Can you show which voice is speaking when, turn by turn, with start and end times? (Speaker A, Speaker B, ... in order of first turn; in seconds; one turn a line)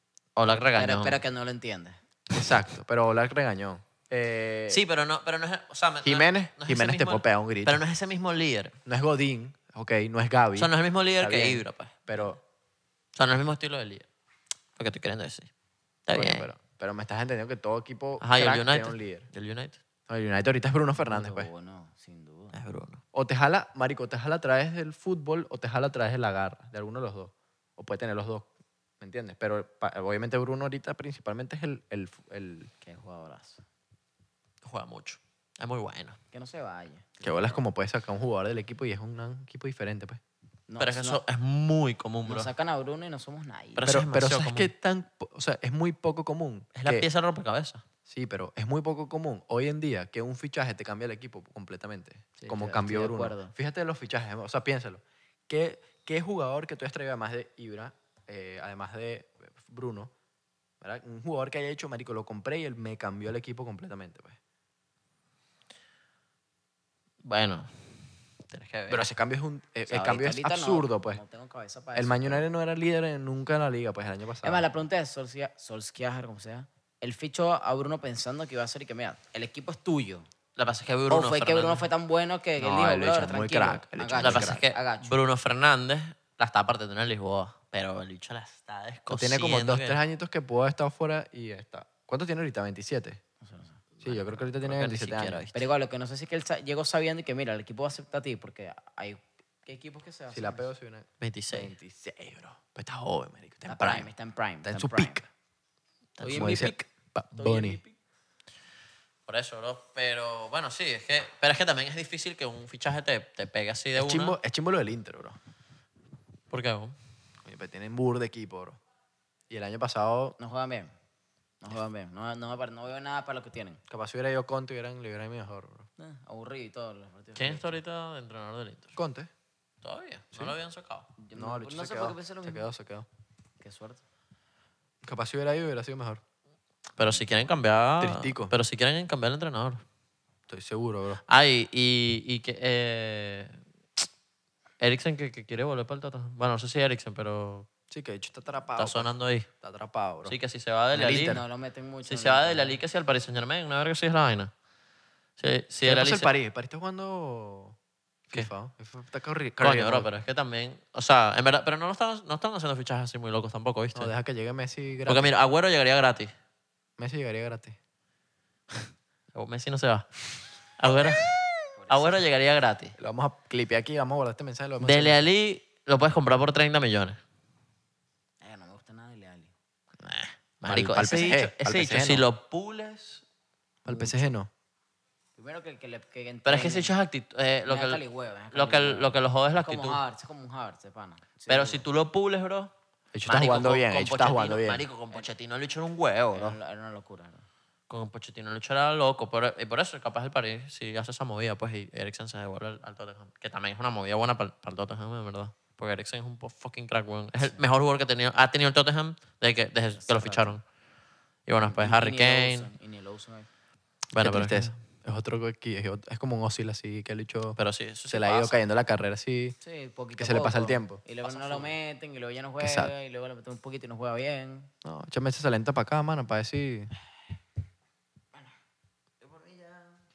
Speaker A: 0.4-1.2
Speaker B: 0.8-2.0
Speaker C: 2.3-4.8
Speaker A: 2.4-2.6
Speaker A: 4.7-8.7
Speaker C: 6.0-7.8
Speaker C: 8.8-12.4
Speaker A: 10.6-12.2
Speaker A: 13.1-14.1
Speaker A: 14.8-15.5
Speaker A: 16.1-16.5
Speaker C: 16.1-19.3
Speaker A: 18.2-19.8
Speaker C: 20.1-21.5
Speaker B: 21.0-22.6
Speaker A: 22.5-23.0
Speaker C: 23.1-28.5
Speaker C: 29.0-32.7
Speaker B: 32.8-33.6
Speaker A: 34.6-36.2
Speaker B: 36.3-37.6
Speaker C: 37.2-40.2
Speaker B: 40.7-41.2
Speaker A: 40.8-42.5
Speaker B: 42.2-44.0
Speaker A: 43.8-44.7
Speaker C: 43.9-47.1
Speaker A: 46.8-47.8
Speaker C: 48.1-60.1
Speaker B: 52.4-53.5
Speaker C: 60.8-64.4
Speaker A: 67.2-69.0
Speaker C: 68.9-71.2
Speaker B: 69.9-72.4
Speaker C: 71.9-74.7
Speaker B: 74.4-80.3
Speaker A: 80.6-81.8
Speaker B: 81.1-85.2
Speaker C: 82.6-84.6
Speaker A: 84.2-90.0
Speaker C: 89.1-93.2
Speaker B: 93.4-93.8
Speaker C: 94.0-95.5
Speaker A: 94.0-95.7
Speaker B: 95.5-100.7
Speaker C: 100.3-104.1
Speaker A: 101.2-101.7
Speaker B: 103.7-105.2
Speaker C: 104.6-105.2
Speaker A: 106.2-106.7
Speaker B: 106.2-106.7
Speaker C: 106.2-107.8
Speaker B: 107.3-108.0
Speaker A: 109.3-114.4
Speaker C: 114.0-115.4
Speaker A: 116.5-116.9
Speaker C: 117.4-118.8
Speaker C: 119.5-120.4
Speaker B: 120.4-120.9
Speaker B: 121.6-123.8
Speaker C: 123.9-125.9
Speaker B: 126.0-127.8
Speaker A: 127.4-128.9
Speaker C: 129.0-129.3
Speaker A: 129.8-131.1
Speaker B: 131.2-132.7
Speaker C: 131.3-133.1
Speaker B: 133.6-134.0
Speaker C: 135.0-136.2
Speaker A: 137.0-139.8
Speaker C: 138.0-138.5
Speaker C: 140.5-141.2
Speaker A: 141.3-143.6
Speaker A: 144.8-147.7
Speaker C: 147.9-150.3
Speaker A: 148.8-149.5
Speaker A: 150.2-151.4
Speaker B: 150.9-152.8
Speaker C: 151.0-151.4
Speaker A: 152.1-154.5
Speaker A: 155.4-156.3
Speaker C: 155.8-157.8
Speaker C: 158.3-160.1
Speaker A: 159.6-164.1
Speaker C: 163.9-165.3
Speaker A: 165.1-166.3
Speaker C: 167.0-167.8
Speaker A: 168.7-170.2
Speaker A: 170.8-172.9
Speaker B: 171.8-172.2
Speaker C: 173.0-175.2
Speaker A: 174.8-177.2
Speaker B: 178.4-179.5
Speaker C: 180.0-182.3
Speaker A: 180.6-183.2
Speaker C: 183.8-184.5
Speaker B: 185.4-186.9
Speaker A: 186.5-190.0
Speaker B: 187.7-191.8
Speaker A: 191.5-192.7
Speaker C: 193.1-194.8
Speaker A: 193.3-196.6
Speaker B: 196.3-197.4
Speaker A: 197.9-210.6
Speaker B: 210.0-210.6
Speaker A: 211.5-212.7
Speaker B: 211.7-213.5
Speaker A: 214.1-214.7
Speaker C: 214.2-217.6
Speaker A: 217.6-218.6
Speaker C: 218.1-219.6
Speaker B: 219.6-224.7
Speaker C: 220.2-221.0
Speaker A: 221.2-221.7
Speaker C: 222.6-222.9
Speaker C: 224.8-226.9
Speaker B: 229.2-229.9